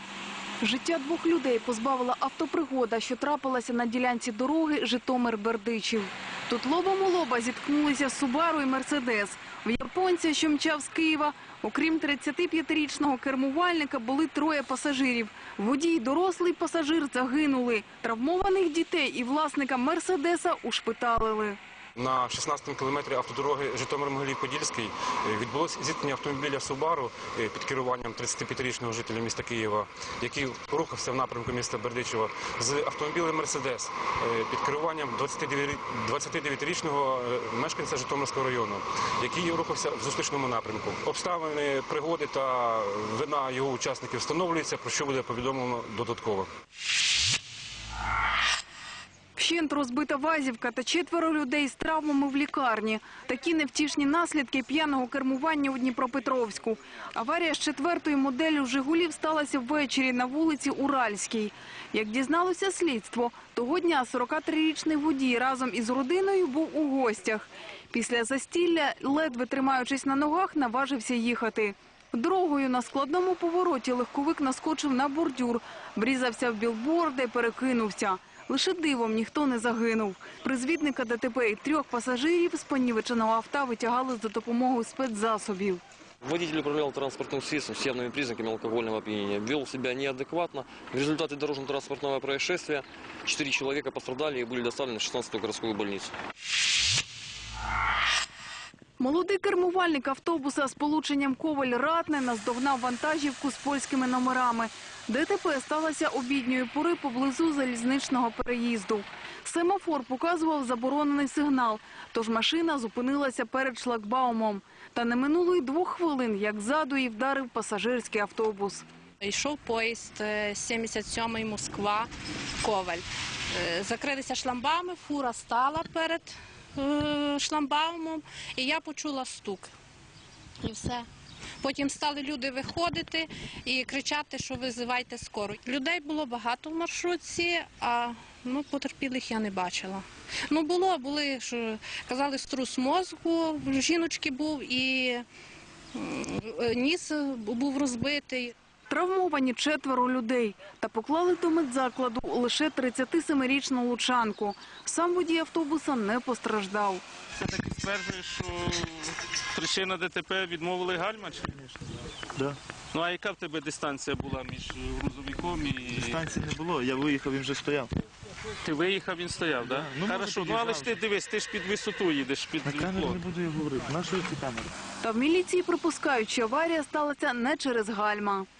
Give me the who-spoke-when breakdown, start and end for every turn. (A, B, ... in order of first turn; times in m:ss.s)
0:00.6-0:21.6 A
0:22.0-0:46.5 B
0:49.4-1:25.8 A
1:26.2-1:36.1 C
1:39.0-1:58.8 A
1:59.2-2:02.1 D
2:02.6-2:09.7 D
2:10.6-2:11.1 D
2:11.6-2:25.2 D
2:25.9-2:28.5 D
2:28.9-2:37.0 A
2:37.4-2:41.5 E
2:42.9-2:46.1 E
2:45.9-2:47.9 F
2:48.6-2:53.2 E
2:49.6-2:50.9 F
2:52.6-2:54.7 F
2:55.0-2:58.5 A